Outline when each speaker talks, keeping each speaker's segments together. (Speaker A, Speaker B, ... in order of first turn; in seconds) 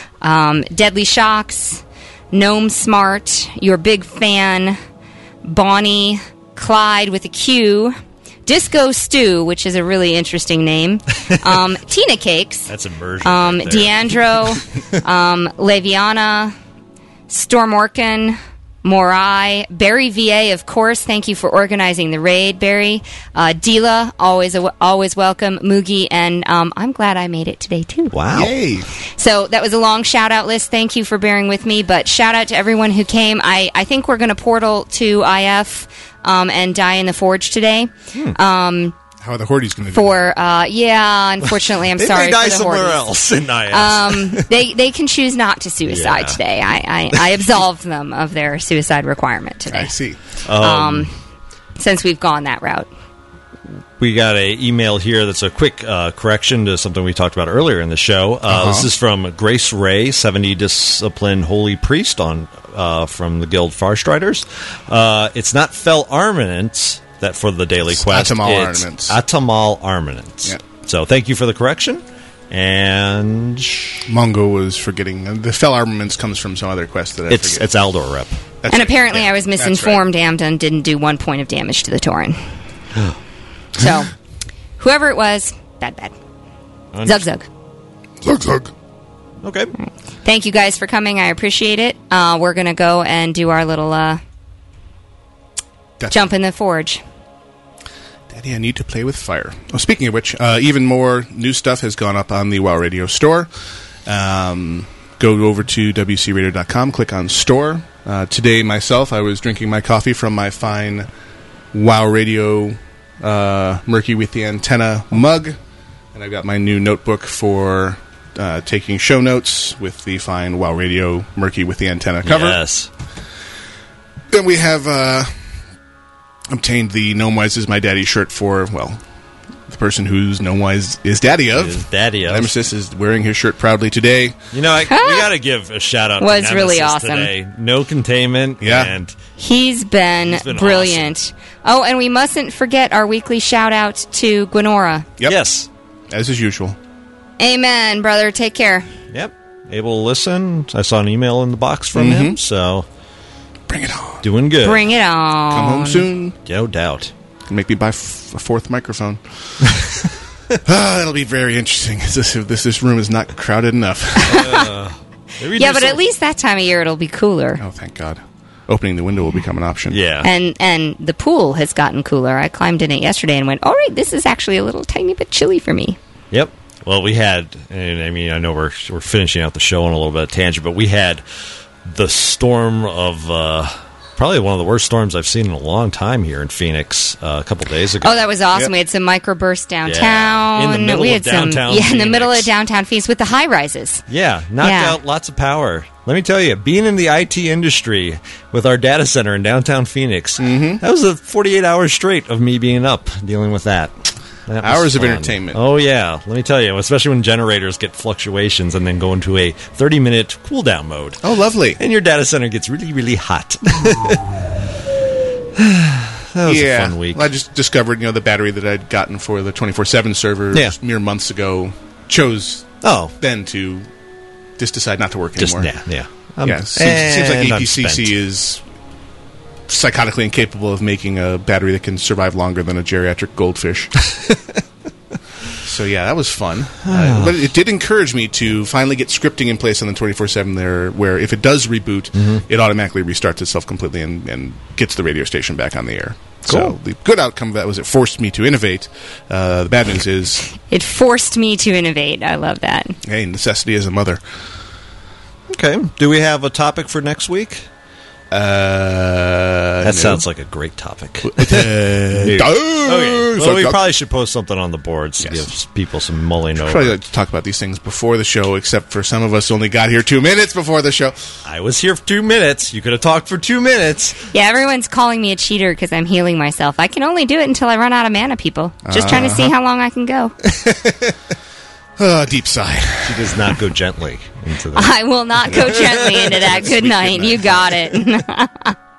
Speaker A: 0.2-4.8, 5.4-12.7, 13.2-16.5, 17.3-28.1, 29.0-39.0, 39.9-43.0, 43.7-49.9, 50.6-51.1, 51.8-52.9, 78.7-82.4, 83.8-84.1, 84.8-86.1, 87.0-87.5, 89.8-94.2, 96.1-97.0, 134.9-135.3, 136.2-137.3, 139.4-145.1, 147.4-148.8, 154.6-156.1, 164.3-164.6, 165.6-167.6, 170.2-176.0, 188.0-194.0, 194.6-194.9, 250.7-253.0, 274.3-280.3, 284.7-288.7
Speaker B: 12.7-14.4, 28.1-28.5, 42.0-44.5, 45.9-46.4, 50.5-51.1, 54.0-74.0, 77.3-78.3, 86.9-87.2, 89.4-89.7, 122.2-122.9, 131.5-132.5, 134.5-139.2, 140.2-141.1, 145.2-145.7, 149.1-152.8, 154.2-154.8, 156.4-157.1, 164.3-166.0, 169.9-170.3, 176.3-181.2, 181.8-188.3, 189.8-192.5, 194.1-203.9, 204.5-211.2, 211.8-214.5, 215.6-217.3, 222.8-223.1, 225.4-228.1, 236.8-237.4, 246.5-246.8, 255.5-257.6, 259.8-266.9, 271.4-274.1, 283.0-286.5
Speaker C: 28.3-28.9, 39.2-40.2, 49.7-50.2, 58.5-58.9, 67.9-69.2, 74.0-77.7, 78.6-80.0, 88.2-88.7, 96.0-96.3, 98.3-103.5, 104.0-111.1, 111.7-115.6, 116.1-122.6, 124.3-125.3, 126.5-129.0, 129.7-134.4, 138.6-138.9, 146.1-146.8, 151.9-152.4, 153.7-154.2, 155.5-156.3, 157.5-159.9, 160.6-164.5, 167.6-170.0, 200.4-200.8, 204.6-205.6, 211.2-211.8, 216.4-223.9, 224.6-225.7, 226.4-228.6, 229.7-234.0, 235.6-250.5, 253.0-254.2, 258.3-260.2, 261.2-263.8, 265.2-265.4, 266.6-271.2, 278.9-279.5, 280.6-281.1, 282.0-283.5, 285.5-287.8